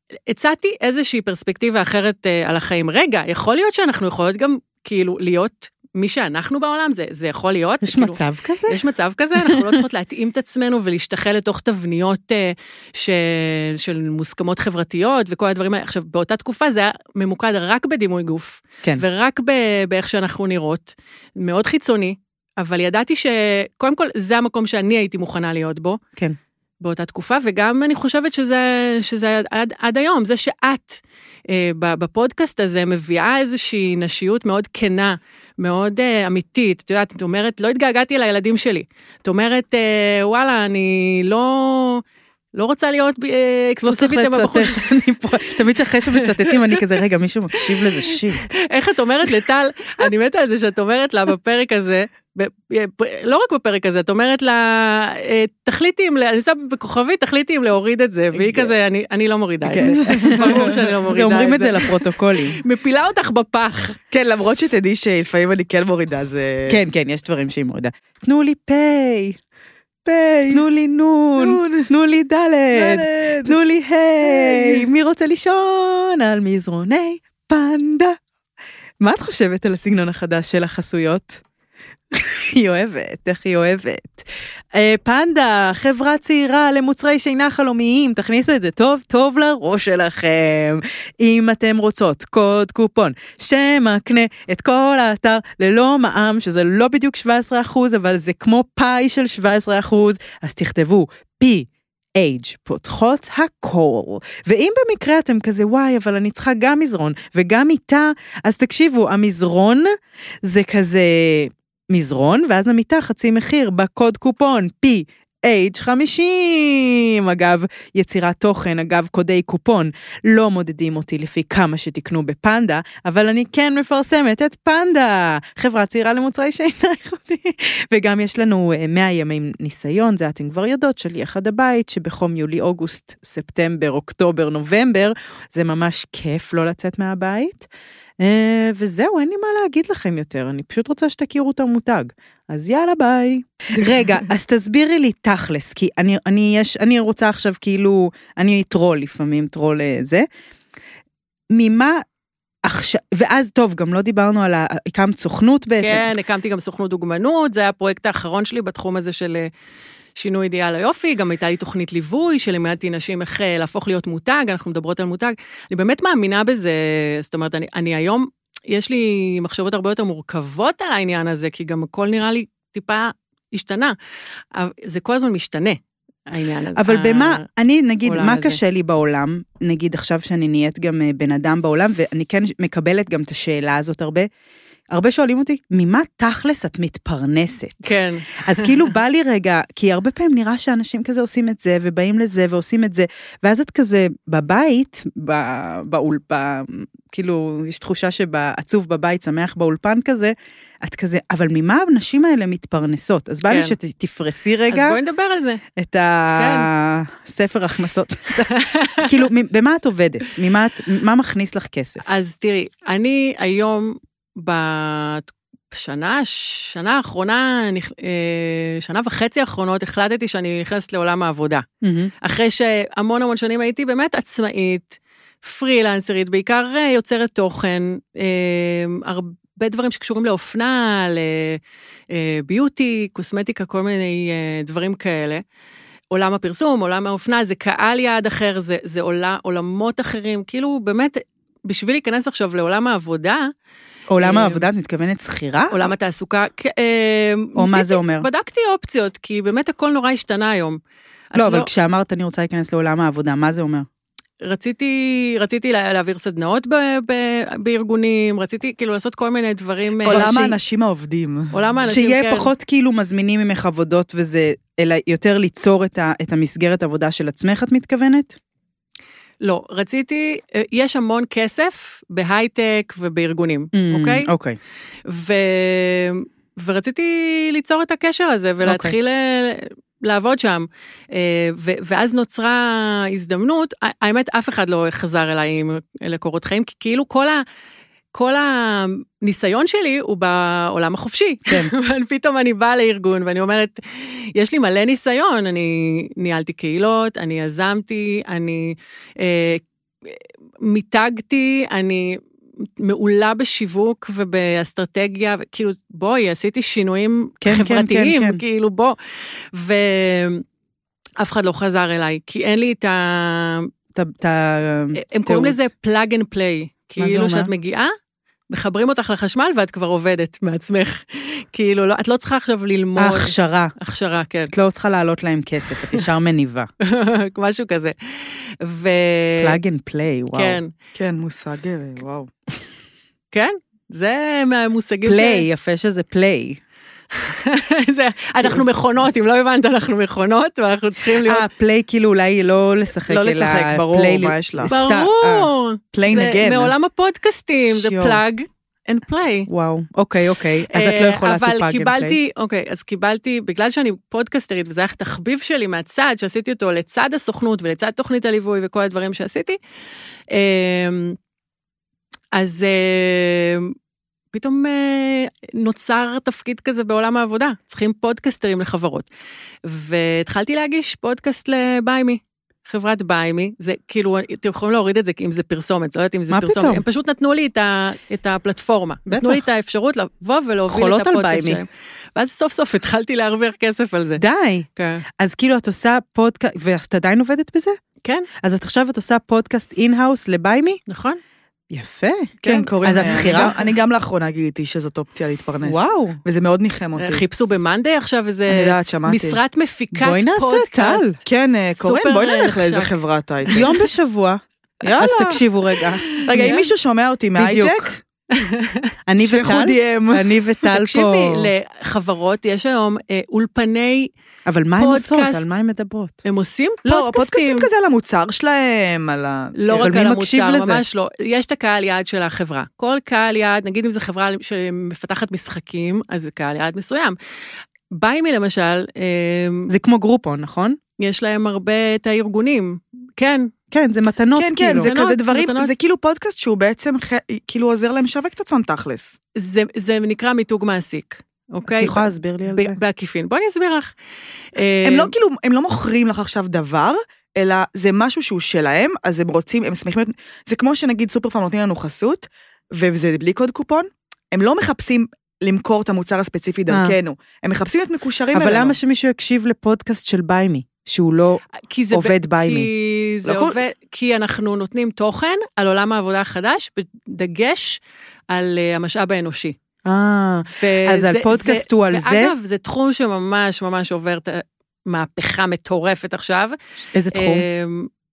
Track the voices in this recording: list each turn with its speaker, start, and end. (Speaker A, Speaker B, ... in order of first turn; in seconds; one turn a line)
Speaker A: 0.3-26.0
Speaker B: 7.8-8.8
Speaker B: 9.4-9.8
Speaker A: 26.8-42.0
Speaker A: 42.5-44.9
Speaker B: 43.8-48.6
Speaker A: 46.1-46.8
Speaker A: 47.7-64.0
Speaker C: 58.4-58.7
Speaker B: 59.6-62.6
Speaker C: 60.0-60.9
Speaker C: 64.1-66.8
Speaker B: 66.7-69.4
Speaker C: 70.0-70.6
Speaker B: 70.5-78.2
Speaker C: 71.4-71.9
Speaker C: 72.7-73.6
Speaker C: 74.2-74.9
Speaker B: 79.0-81.4
Speaker B: 82.1-137.7
Speaker B: 138.2-150.3
Speaker B: 151.5-152.0
Speaker B: 152.7-156.1
Speaker A: 155.8-159.5
Speaker A: 160.2-173.9
Speaker A: 174.5-177.4
Speaker B: 176.8-184.3
Speaker A: 178.1-178.6
Speaker B: 184.9-205.0
Speaker A: 187.8-188.9
Speaker A: 203.5-203.8
Speaker A: 204.7-205.6
Speaker B: 205.8-212.0
Speaker A: 206.4-206.7
Speaker A: 208.4-209.1
Speaker A: 212.0-221.7
Speaker B: 221.8-222.1
Speaker A: 222.2-231.6
Speaker A: 232.1-235.4
Speaker A: 236.1-243.5
Speaker B: 244.1-245.8
Speaker A: 244.2-244.7
Speaker A: 245.7-250.8
Speaker B: 247.6-248.3
Speaker A: 251.3-251.7
Speaker B: 251.4-253.9
Speaker A: 254.4-260.5
Speaker C: 260.1-261.5
Speaker B: 260.1-260.5
Speaker A: 261.5-262.5
Speaker B: 261.8-268.4
Speaker A: 269.4-274.3
Speaker B: 273.7-274.6
Speaker A: 275.1-287.4
Speaker B: 278.6-278.9
Speaker A: 288.1-309.0
Speaker B: 307.4-308.4
Speaker A: 309.5-310.4
Speaker A: 311.2-313.7
Speaker B: 313.9-315.6
Speaker A: 315.0-317.9
Speaker B: 317.0-317.5
Speaker A: 318.5-324.5
Speaker B: 323.0-323.7
Speaker B: 324.5-326.7
Speaker A: 326.8-329.6
Speaker B: 329.4-330.6
Speaker A: 330.3-330.7
Speaker C: 330.9-332.3
Speaker A: 333.3-335.4
Speaker B: 335.1-336.6
Speaker A: 337.1-341.5
Speaker B: 341.2-345.5
Speaker C: 343.1-344.7
Speaker A: 344.7-349.5
Speaker C: 345.9-346.7
Speaker B: 347.6-348.2
Speaker B: 349.5-352.2
Speaker A: 350.7-359.6
Speaker A: 360.3-361.2
Speaker A: 362.3-363.8
Speaker A: 364.3-369.1
Speaker A: 369.6-384.2
Speaker B: 376.3-376.8
Speaker B: 379.1-379.4
Speaker B: 380.7-381.6
Speaker B: 384.2-384.7
Speaker A: 384.8-385.0
Speaker B: 385.2-387.8
Speaker B: 388.4-390.8
Speaker A: 390.9-391.2
Speaker B: 391.7-393.5
Speaker A: 392.4-393.6
Speaker C: 392.4-397.2
Speaker B: 395.6-396.2
Speaker A: 397.0-401.2
Speaker C: 398.5-399.4
Speaker B: 399.9-401.2
Speaker C: 401.3-403.7
Speaker A: 401.8-403.0
Speaker B: 403.5-406.1
Speaker C: 404.8-405.4
Speaker A: 406.0-406.7
Speaker C: 406.2-408.0
Speaker B: 407.4-408.0
Speaker A: 408.3-408.9
Speaker B: 409.1-411.5
Speaker C: 409.2-410.2
Speaker A: 410.7-414.1
Speaker B: 414.5-416.2
Speaker A: 414.8-415.5
Speaker A: 416.2-417.7
Speaker C: 416.9-419.9
Speaker A: 419.6-427.2
Speaker B: 419.8-420.8
Speaker A: 427.9-429.7
Speaker B: 429.7-430.8
Speaker A: 431.0-433.5
Speaker B: 433.7-434.9
Speaker C: 434.4-439.2
Speaker A: 434.8-435.7
Speaker A: 439.4-443.9
Speaker B: 441.7-442.8
Speaker A: 444.6-445.1
Speaker C: 444.9-458.8
Speaker B: 456.7-457.0
Speaker B: 458.3-462.7
Speaker A: 461.7-469.6
Speaker C: 463.2-463.6
Speaker B: 469.9-472.3
Speaker A: 470.6-476.6
Speaker B: 476.9-477.5
Speaker A: 477.1-477.9